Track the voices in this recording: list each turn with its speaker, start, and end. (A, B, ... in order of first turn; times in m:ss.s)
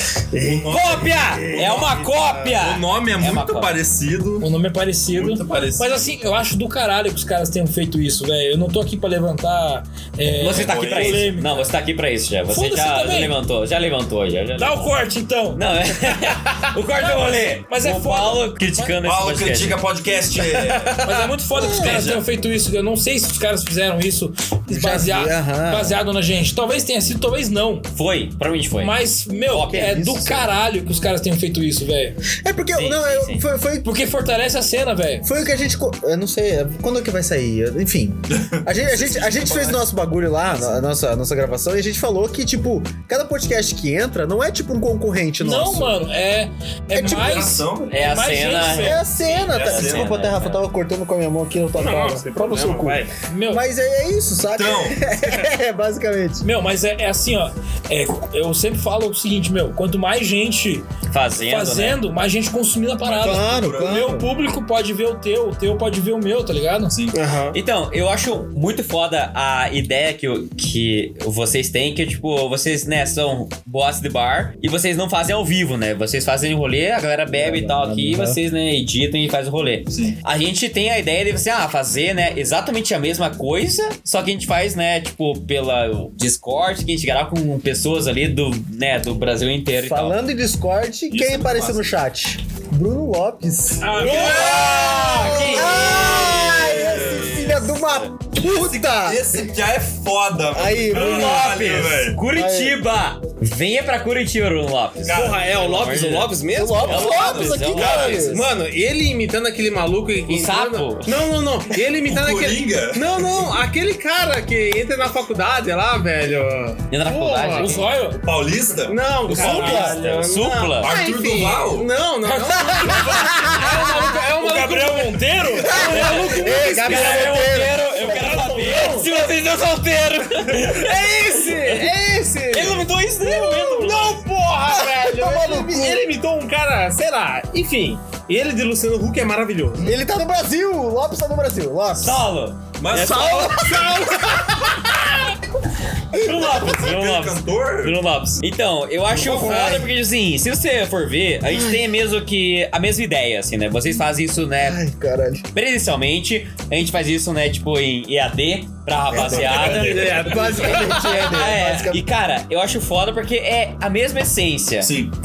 0:00.4-0:02.3 A
0:00.4-0:04.5 B
0:00.7-0:03.8 C
0:04.4-0:11.7 D
0:05.1-0:06.0 B
0:10.4-0:14.9 C
0:10.6-0:11.2 B
0:12.5-0:13.4 D
0:14.6-0:15.6 D
0:15.5-0:19.8 C
0:17.0-0:18.9 D
0:19.0-0:21.0 B
0:20.4-0:21.3 A
0:21.0-0:27.9 D
0:21.6-0:22.0 E
0:21.7-0:22.2 B
0:24.7-0:26.0 E
0:27.9-0:30.0 C
0:28.8-0:32.2 D
0:29.7-0:30.5 E
0:32.4-0:33.9 E
0:32.7-0:33.4 C
0:33.8-0:35.3 D
0:35.2-0:46.0 E
0:38.3-0:39.8 B
0:45.4-0:49.1 D
0:46.9-0:48.0 B
0:47.9-0:50.6 C
0:48.7-0:56.5 E
0:49.5-0:50.2 B
0:51.8-0:53.1 A
0:53.3-0:53.6 D
0:54.5-0:55.0 B
0:56.4-1:00.9 D
1:01.1-1:02.0 C
1:01.4-1:07.0 D
1:03.0-1:04.2 B
1:03.1-1:04.3 E
1:06.9-1:07.2 B
1:07.1-1:07.6 A
1:07.5-1:30.2 C
1:17.3-1:18.4 E
1:19.9-1:20.2 B
1:29.8-1:34.5 E
1:31.1-1:31.9 B
1:33.8-1:35.0 D
1:34.0-1:37.4 B
1:34.0-1:38.1 C
1:35.2-1:39.2 E
1:38.4-1:42.2 B
1:40.5-1:41.5 E
1:40.9-1:48.4 C
1:42.2-1:42.8 E
1:45.0-1:45.4 B
1:45.1-1:57.8 A
1:46.5-1:48.5 E
1:50.3-1:51.2 C
1:52.0-1:53.5 B
1:56.9-1:57.9 C
1:57.6-1:58.2 D
1:58.1-1:59.0 B
1:58.9-2:07.7 A
1:59.3-2:00.0 E
1:59.3-2:01.0 C
1:59.5-1:59.9 D
2:00.8-2:01.9 B
2:02.2-2:06.6 D
2:02.8-2:04.0 E
2:05.5-2:09.1 E
2:06.8-2:11.9 C
2:08.1-2:09.0 D
2:08.4-2:08.6 A
2:10.5-2:19.9 A
2:12.5-2:14.2 C
2:14.7-2:16.1 E
2:19.8-2:22.3 E
2:22.0-2:23.5 C
2:22.8-2:23.6 B
2:22.9-2:24.4 E
2:23.6-2:25.0 A
2:26.1-2:34.8 C
2:26.4-2:28.0 B
2:29.1-2:29.9 E
2:31.5-2:31.8 E
2:34.6-2:35.4 E
2:35.5-2:44.9 C
2:39.1-2:42.0 E
2:39.3-2:41.2 A
2:44.8-2:45.1 B